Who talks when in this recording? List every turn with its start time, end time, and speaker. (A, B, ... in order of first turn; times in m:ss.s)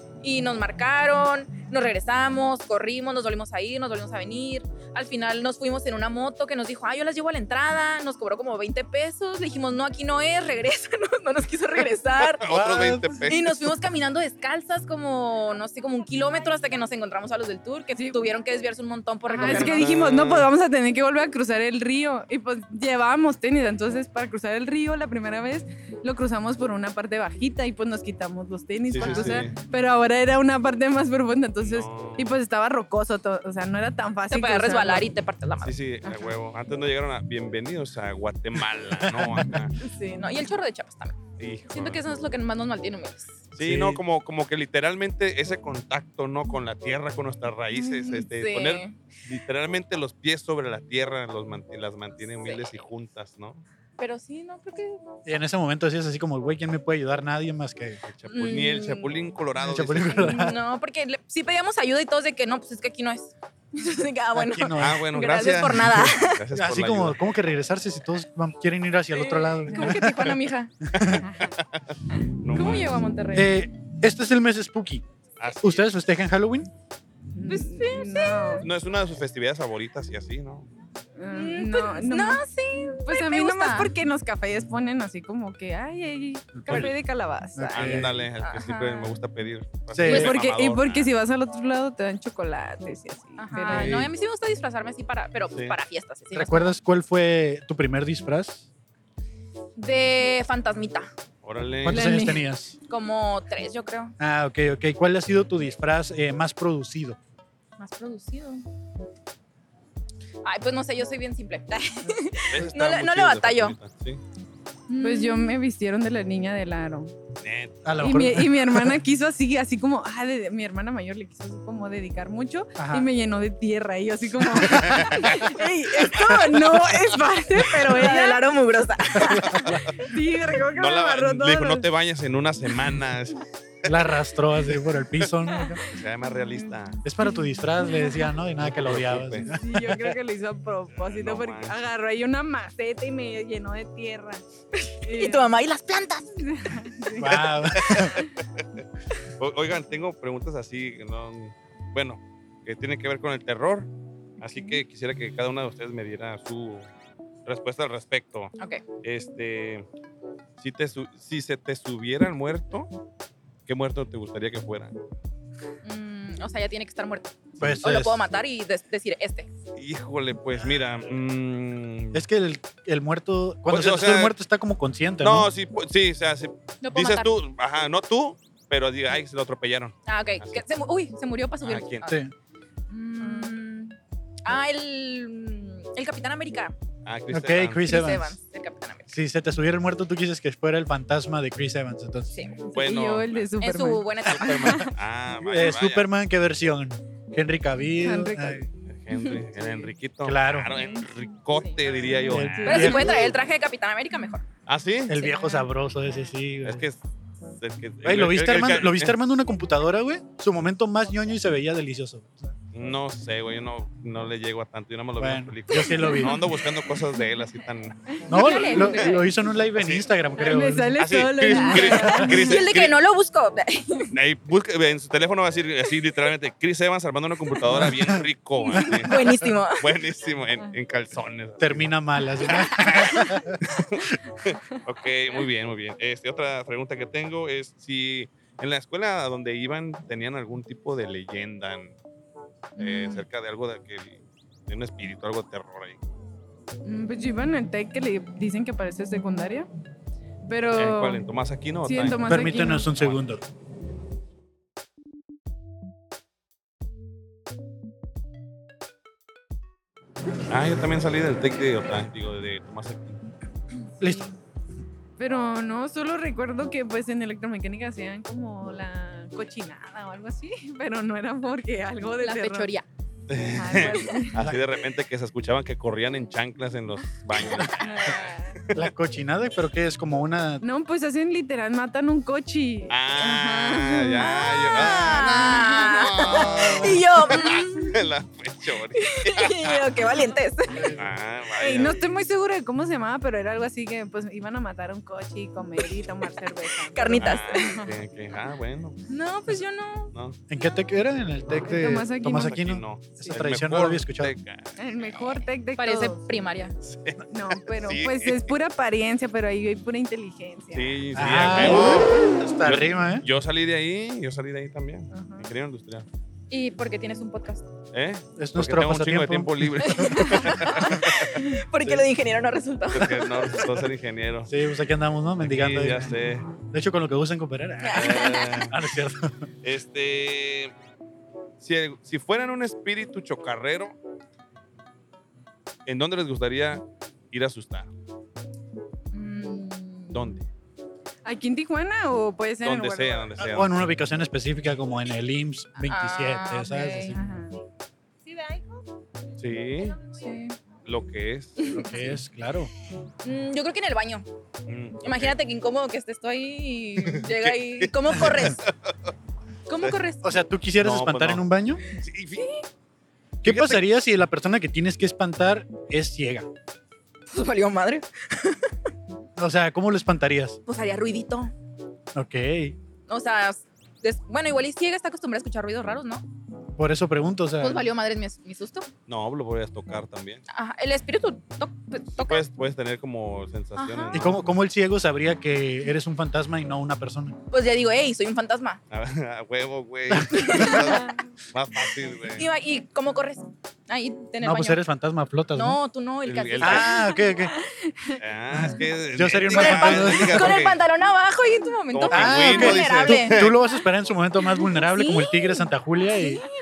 0:00.2-0:12.4 A
0:12.4-0:13.6 B
0:12.4-0:13.2 C
0:13.3-0:19.9 A
0:19.3-0:35.1 D
0:19.4-0:20.5 B
0:28.9-0:29.6 B
0:29.0-0:29.4 A
0:31.6-0:32.3 B
0:34.3-0:35.8 A
0:35.6-0:39.7 B
0:36.0-0:36.3 D
0:39.1-0:39.5 C
0:39.8-0:40.3 D
0:40.0-0:43.4 A
0:41.4-0:42.0 B
0:43.5-0:53.6 B
0:43.6-0:44.0 C
0:47.8-0:49.0 A
0:52.4-0:52.8 A
0:54.0-0:55.0 A
0:55.2-0:58.0 C
0:58.0-1:00.4 B
0:58.3-0:59.1 A
0:59.6-1:00.6 C
1:00.2-1:06.4 A
1:04.3-1:05.0 C
1:04.8-1:07.2 B
1:06.5-1:10.3 C
1:09.1-1:10.7 A
1:10.9-1:11.2 C
1:10.9-1:13.0 B
1:11.2-1:11.5 D
1:12.5-1:13.5 A
1:13.3-1:15.0 C
1:15.4-1:15.8 B
1:15.6-1:16.7 C
1:17.3-1:18.7 D
1:17.4-1:18.7 A
1:18.6-1:20.7 B
1:21.2-1:22.4 D
1:21.3-1:23.9 A
1:23.0-1:28.0 D
1:26.6-1:26.9 C
1:27.6-1:28.2 C
1:27.7-1:31.1 B
1:28.4-1:29.0 A
1:29.9-1:30.4 C
1:30.0-1:33.9 D
1:33.4-1:36.7 A
1:33.7-1:34.1 C
1:35.5-1:35.8 B
1:36.3-1:38.6 C
1:39.8-1:41.1 A
1:41.4-1:42.0 B
1:41.8-1:42.8 C
1:41.9-1:42.4 D
1:42.9-1:44.1 A
1:44.2-1:47.2 C
1:47.8-1:48.6 A
1:50.4-1:53.8 A
1:52.5-1:54.2 B
1:54.9-1:55.5 A
1:55.0-1:57.1 D
1:57.4-1:58.0 B
1:57.8-1:59.0 C
1:58.0-2:08.4 D
2:02.8-2:03.1 C
2:04.9-2:05.2 B
2:07.9-2:09.5 A
2:09.2-2:09.9 C
2:10.0-2:11.9 D
2:10.8-2:13.9 B
2:13.8-2:15.8 C
2:15.8-2:17.0 B
2:16.5-2:18.3 D
2:17.0-2:20.1 C
2:18.6-2:19.5 B
2:19.5-2:25.4 D
2:20.9-2:21.8 B
2:25.1-2:26.5 A
2:26.4-2:27.6 D
2:27.2-2:28.2 C
2:27.8-2:28.2 B
2:29.4-2:33.9 B
2:34.4-2:36.9 B
2:37.4-2:39.8 B
2:38.6-2:38.8 A
2:40.6-2:42.9 B
2:43.6-2:44.9 B
2:45.8-2:49.5 A
2:47.6-2:48.2 C
2:49.8-2:52.2 B
2:52.1-2:55.5 C
2:53.7-2:54.3 B
2:55.2-3:00.6 B
2:56.8-2:57.3 A
3:00.0-3:02.2 A
3:01.6-3:02.1 B
3:02.1-3:02.3 C
3:02.9-3:06.7 A
3:03.2-3:03.5 D
3:07.0-3:08.1 B
3:07.3-3:08.4 C
3:07.8-3:09.1 A
3:09.1-3:12.3 C
3:12.6-3:14.1 D
3:12.7-3:13.5 B
3:13.6-3:14.9 A
3:14.2-3:16.1 B
3:15.4-3:18.7 C
3:18.0-3:18.6 D
3:18.9-3:23.2 B
3:19.2-3:19.8 D
3:20.2-3:20.7 C
3:21.5-3:24.4 A
3:21.8-3:23.3 D
3:22.3-3:23.2 C
3:24.7-3:25.2 B
3:25.1-3:26.8 C
3:25.2-3:26.3 D
3:26.6-3:27.0 B
3:27.6-3:29.2 B
3:28.0-3:32.5 C
3:32.7-3:38.2 B
3:35.2-3:36.4 C
3:36.0-3:36.3 D
3:38.3-3:41.0 C
3:38.3-3:39.1 A
3:38.4-3:39.0 D
3:39.8-3:40.1 B
3:40.4-3:42.5 D
3:41.0-3:42.9 B
3:41.6-3:42.1 C
3:42.2-3:44.1 A
3:44.1-3:49.1 B
3:47.7-3:48.2 C
3:48.8-3:49.9 A
3:48.8-3:49.3 C
3:49.8-3:51.9 B
3:51.6-3:53.6 C
3:52.5-3:53.1 B
3:53.6-4:01.9 B
4:02.8-4:06.0 B
4:02.8-4:03.2 D
4:06.8-4:09.7 D
4:10.4-4:11.2 D
4:10.8-4:12.3 B
4:11.8-4:12.9 D
4:12.3-4:13.4 C
4:12.9-4:13.2 B
4:20.5-4:23.2 B
4:24.0-4:24.2 C
4:25.2-4:32.7 D
4:32.2-4:32.8 A
4:33.3-4:38.8 B
4:33.6-4:34.3 D
4:37.6-4:38.6 D
4:38.7-4:40.6 C
4:40.6-4:46.8 D
4:42.9-4:49.9 B
4:44.2-4:48.0 A
4:49.0-4:50.9 A
4:51.0-4:52.1 B
4:51.6-4:57.9 D
4:56.9-4:57.8 A
4:57.2-4:59.0 B
4:59.1-5:00.1 A
5:00.5-5:04.3 C
5:01.6-5:02.5 D
5:02.3-5:05.2 B
5:04.8-5:06.2 D
5:05.8-5:06.8 A
5:06.8-5:08.5 B
5:07.3-5:10.9 D
5:10.7-5:16.0 B
5:11.1-5:13.2 C
5:15.1-5:15.5 D
5:16.5-5:17.6 A
5:17.9-5:22.0 B
5:18.4-5:20.4 C
5:19.8-5:23.3 A
5:22.9-5:24.5 B
5:24.5-5:26.1 C
5:25.4-5:26.4 B
5:26.7-5:29.4 C
5:27.8-5:28.6 A
5:27.9-5:28.7 B
5:29.6-5:30.7 B
5:31.6-5:33.9 B
5:35.9-5:37.9 B
5:39.1-5:40.2 A
5:40.1-5:40.4 B
5:41.2-5:43.3 D
5:42.6-5:43.8 B
5:43.4-5:47.2 C
5:45.8-5:47.2 A
5:47.1-5:47.5 D
5:49.4-5:50.0 B
5:50.0-5:50.6 A
5:50.8-5:52.2 B
5:51.6-5:51.8 A
5:51.7-5:52.7 C
5:53.2-5:54.2 A
5:54.7-5:55.4 B
5:55.0-5:58.6 A
5:57.0-5:58.9 B
5:59.7-6:00.2 A
6:00.2-6:01.8 C
6:00.8-6:02.4 B
6:02.4-6:02.6 A
6:03.4-6:06.5 C
6:03.4-6:03.8 B
6:07.3-6:08.7 A
6:09.4-6:10.6 C
6:10.7-6:11.5 A
6:12.1-6:12.8 C
6:13.1-6:16.2 A
6:16.8-6:17.8 C
6:17.6-6:18.9 A
6:19.1-6:20.4 B
6:20.5-6:22.4 A
6:22.2-6:24.4 B
6:23.8-6:24.2 A
6:24.1-6:27.4 C
6:27.5-6:28.8 A
6:28.9-6:32.4 B
6:30.1-6:30.5 C
6:30.3-6:31.0 A
6:32.4-6:34.8 A
6:34.4-6:35.8 C
6:35.5-6:37.1 A
6:36.2-6:36.9 B
6:36.6-6:37.5 C
6:37.2-6:38.2 D
6:38.2-6:40.8 B
6:38.5-6:40.6 C
6:39.5-6:43.4 A
6:41.9-6:43.6 B
6:42.1-6:46.4 C
6:44.9-6:45.3 A